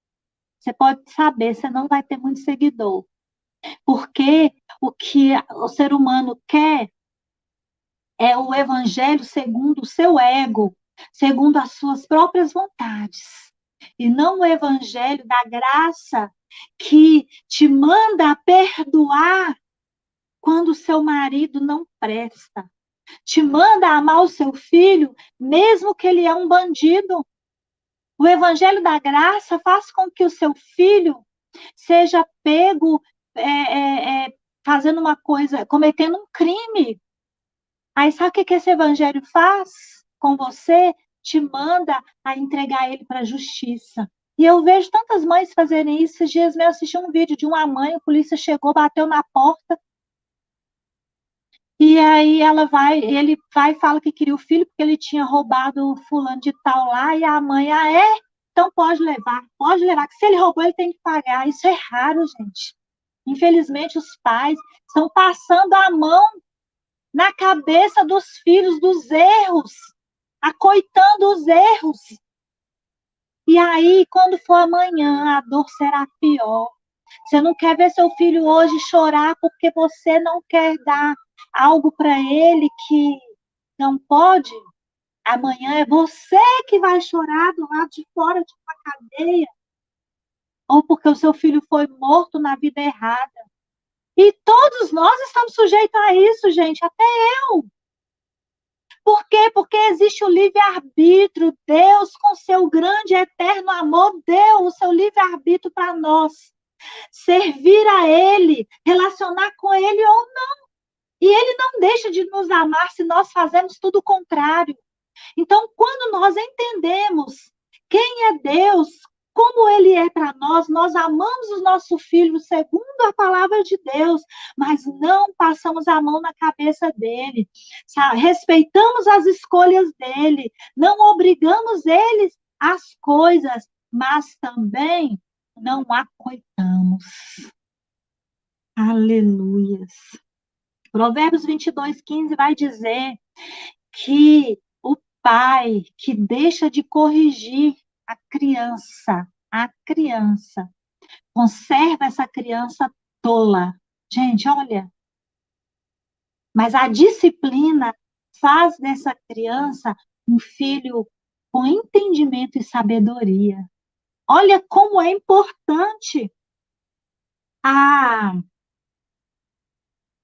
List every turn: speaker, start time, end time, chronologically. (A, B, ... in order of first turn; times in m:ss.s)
0:00.6-0:03.1 A
0:03.9-0:06.9 A
0:08.2-0:19.6 A
0:20.4-0:22.7 A
0:23.3-0:27.2 A
0:28.2-0:37.0 A
0:38.0-0:49.8 A
0:51.8-1:06.3 A
1:07.1-1:12.2 A
1:13.5-1:16.7 A
1:17.3-1:23.2 A
1:23.8-1:24.6 A
1:25.3-1:29.5 A
1:30.7-1:33.4 A
1:34.2-1:37.7 A
1:39.0-1:46.6 A
1:47.1-1:50.5 A
1:51.2-1:54.8 A
1:55.4-2:17.5 A
2:18.8-2:20.2 A
2:20.9-2:23.2 A
2:23.9-2:30.7 A
2:31.3-2:34.9 A
2:36.6-2:43.7 A
2:44.3-2:46.3 A
2:47.6-2:48.4 A